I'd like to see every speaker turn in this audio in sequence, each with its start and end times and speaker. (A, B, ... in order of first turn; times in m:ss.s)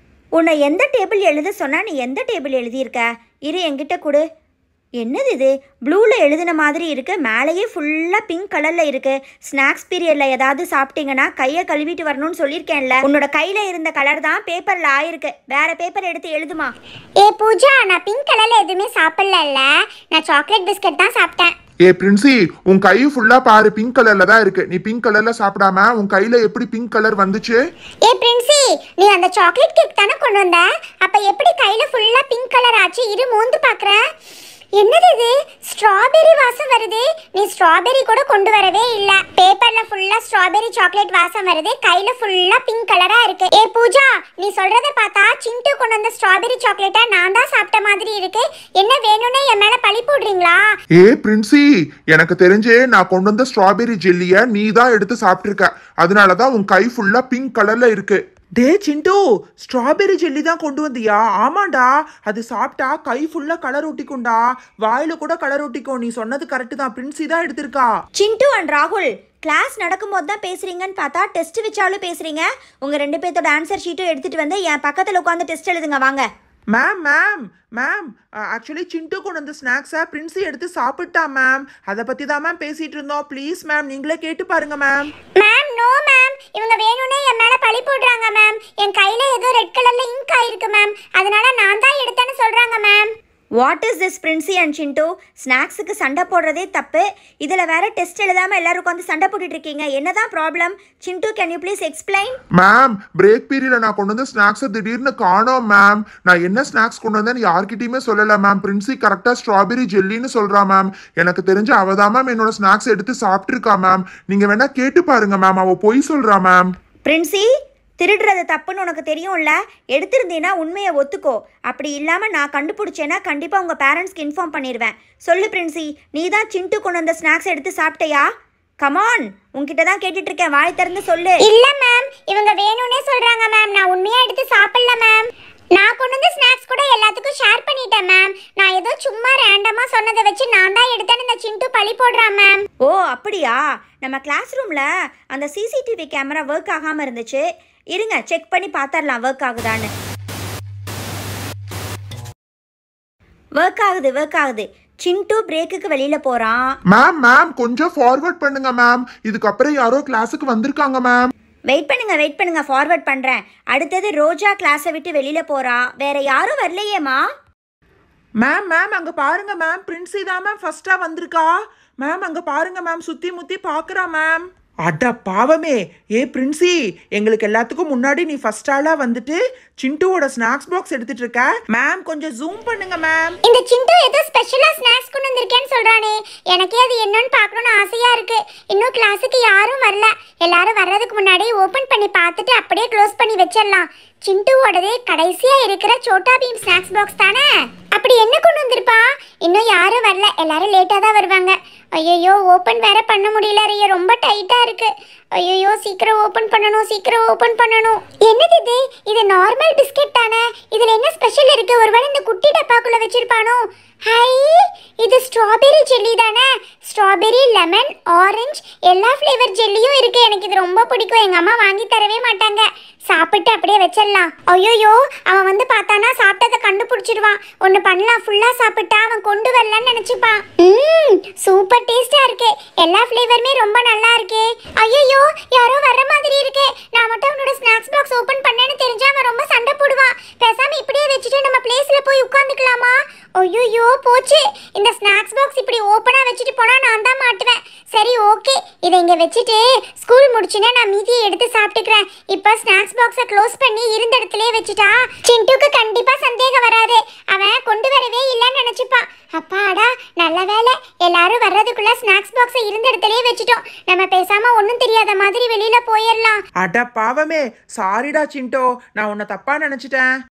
0:00.4-0:04.2 A
0:05.0-0:16.7 A
0:17.2-0:21.5 B
0:21.9-0:27.6 C
0:28.1-0:34.0 B
0:34.8-0:50.7 B
0:51.0-0:58.2 C
0:58.6-1:07.9 D
1:08.2-1:16.2 A
1:16.7-1:25.1 D
1:25.4-1:33.1 B
1:33.6-1:42.4 A
1:42.6-1:56.7 C
1:57.0-1:57.5 A
1:58.0-2:08.3 A
2:08.8-2:11.4 A
2:11.4-2:22.6 B
2:22.8-2:29.9 A
2:33.6-2:36.6 A
2:36.9-2:41.3 C
2:41.7-2:47.2 A
2:48.4-3:03.4 D
3:03.4-4:26.4 B
4:26.6-4:30.1 D